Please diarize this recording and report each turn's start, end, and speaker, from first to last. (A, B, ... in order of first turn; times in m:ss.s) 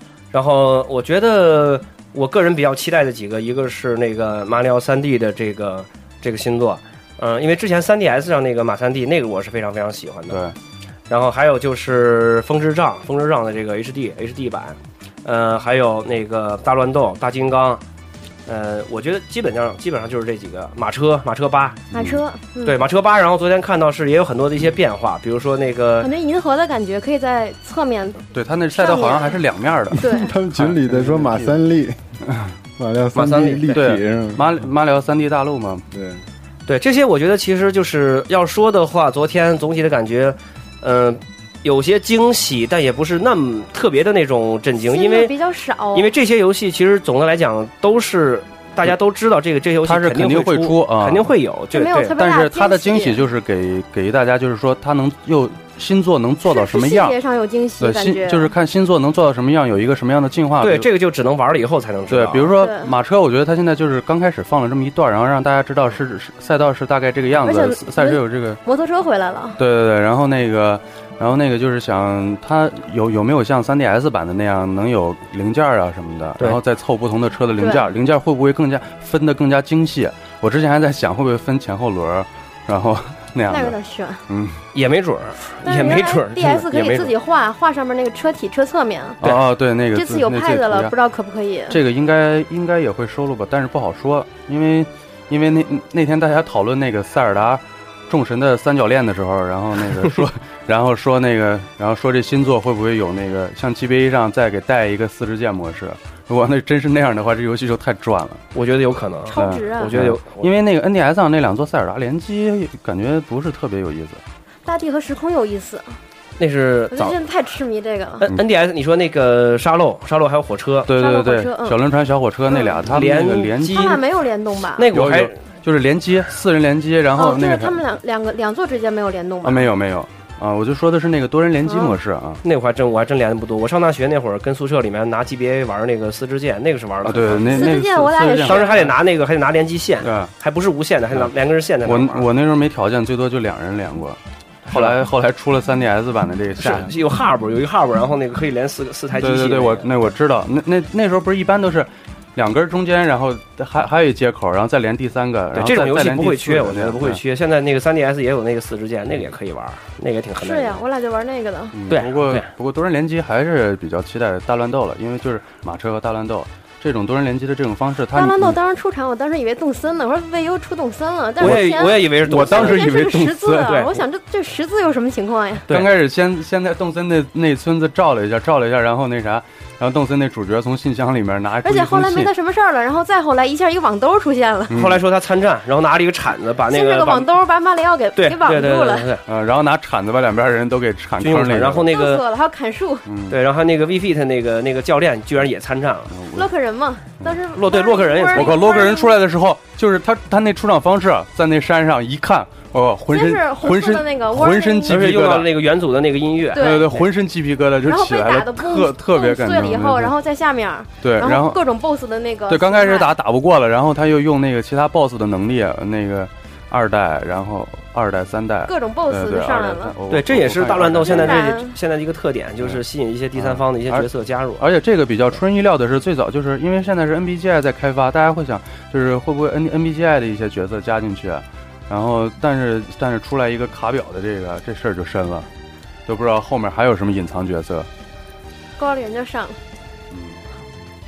0:00.3-0:10.4 A
0:10.3-0:10.6 B
0:11.1-0:17.8 A
0:18.5-0:21.8 A
0:21.9-0:22.2 B
0:21.9-0:22.8 C
0:22.6-0:26.1 A
0:26.0-0:29.4 C
0:28.3-0:31.6 B
0:30.0-0:30.3 C
0:30.0-0:32.0 D
0:32.3-0:32.5 B
0:32.8-0:34.4 D
0:33.1-0:33.8 A
0:33.7-0:35.8 B
0:35.9-0:36.2 D
0:36.7-0:45.3 A
0:44.8-0:46.1 C
0:45.9-0:52.2 A
0:49.8-0:51.3 B
0:51.7-0:53.2 C
0:52.1-0:57.2 B
0:56.4-0:58.5 C
0:57.8-1:00.9 B
1:00.6-1:02.5 A
1:02.1-1:08.6 B
1:02.6-1:02.9 C
1:07.4-1:09.6 C
1:09.6-1:23.8 B
1:17.6-1:17.9 C
1:23.5-1:24.2 C
1:24.3-1:24.6 B
1:24.7-1:27.1 A
1:25.6-1:29.2 C
1:29.2-1:30.9 B
1:29.9-1:31.8 C
1:31.7-1:48.4 B
1:48.5-1:50.5 A
1:49.3-1:50.0 C
1:49.3-1:54.2 B
1:54.7-1:56.0 C
1:56.4-1:57.2 A
1:56.9-1:58.2 C
1:58.2-2:00.9 A
2:00.9-2:04.0 B
2:00.9-2:01.8 C
2:02.5-2:02.8 C
2:02.8-2:04.0 A
2:03.6-2:04.9 C
2:04.8-2:05.4 A
2:04.9-2:07.8 B
2:07.2-2:09.7 C
2:09.4-2:12.4 B
2:11.7-2:11.9 C
2:12.4-2:17.8 A
2:17.0-2:19.0 B
2:17.5-2:18.8 C
2:18.5-2:22.3 A
2:20.0-2:20.3 B
2:21.8-2:26.9 B
2:24.7-2:25.0 A
2:26.6-2:30.0 A
2:29.2-2:37.2 B
2:35.5-2:40.8 A
2:40.4-2:41.8 C
2:41.7-2:48.6 B
2:41.9-2:42.5 A
2:48.1-2:55.7 C
2:51.4-2:53.8 B
2:51.4-2:54.0 A
2:55.7-3:02.3 B
3:01.6-3:04.7 C
3:04.7-3:05.0 B
3:04.7-3:07.3 A
3:06.7-3:09.1 C
3:08.2-3:09.2 A
3:09.3-3:11.9 B
3:11.2-3:12.3 A
3:11.9-3:13.0 C
3:13.1-3:13.4 B
3:13.3-3:16.1 A
3:16.1-3:16.5 B
3:16.3-3:19.1 C
3:17.6-3:18.6 A
3:18.3-3:25.5 B
3:23.1-3:25.1 C
3:24.9-3:27.1 A
3:26.5-3:27.0 C
3:26.5-3:30.2 B
3:27.8-3:33.1 C
3:31.0-3:31.6 B
3:32.5-3:41.5 B
3:38.7-3:39.9 C
3:40.1-3:44.6 A
3:41.0-3:41.8 C
3:43.4-3:55.5 B
3:56.1-3:57.9 B
3:58.8-3:59.6 C
4:00.1-4:00.4 B